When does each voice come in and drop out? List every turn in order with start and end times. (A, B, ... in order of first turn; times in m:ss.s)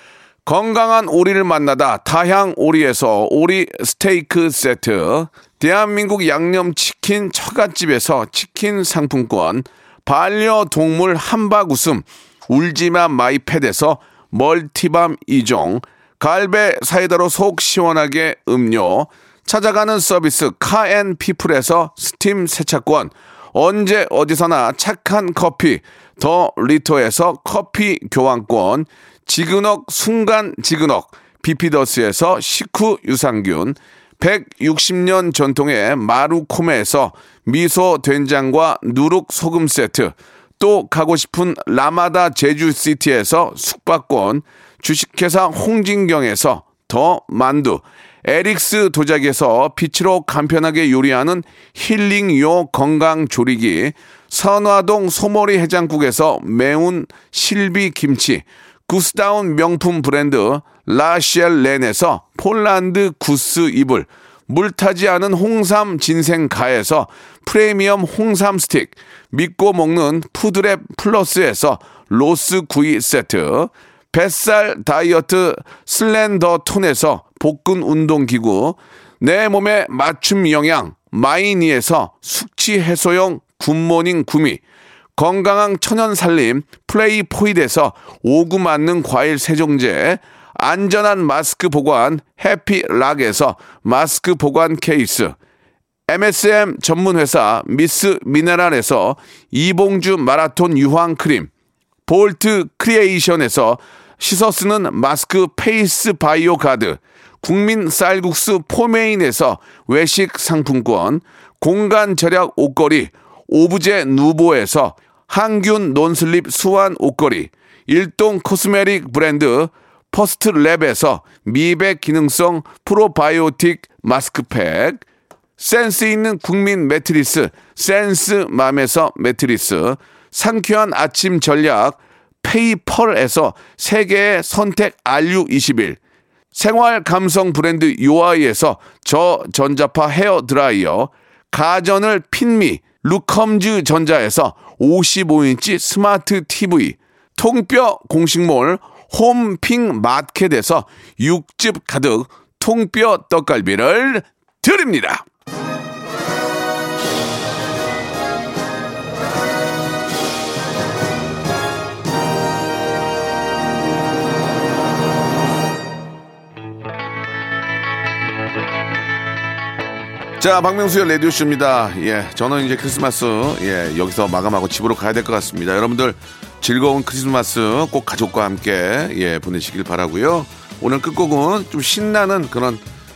0:00.4-1:24.6 A
1:25.2-1:35.4 A
1:36.1-1:41.5 A
1:42.1-2:05.0 A
2:05.6-2:16.0 A
2:16.5-2:35.2 A
2:50.4-3:02.8 A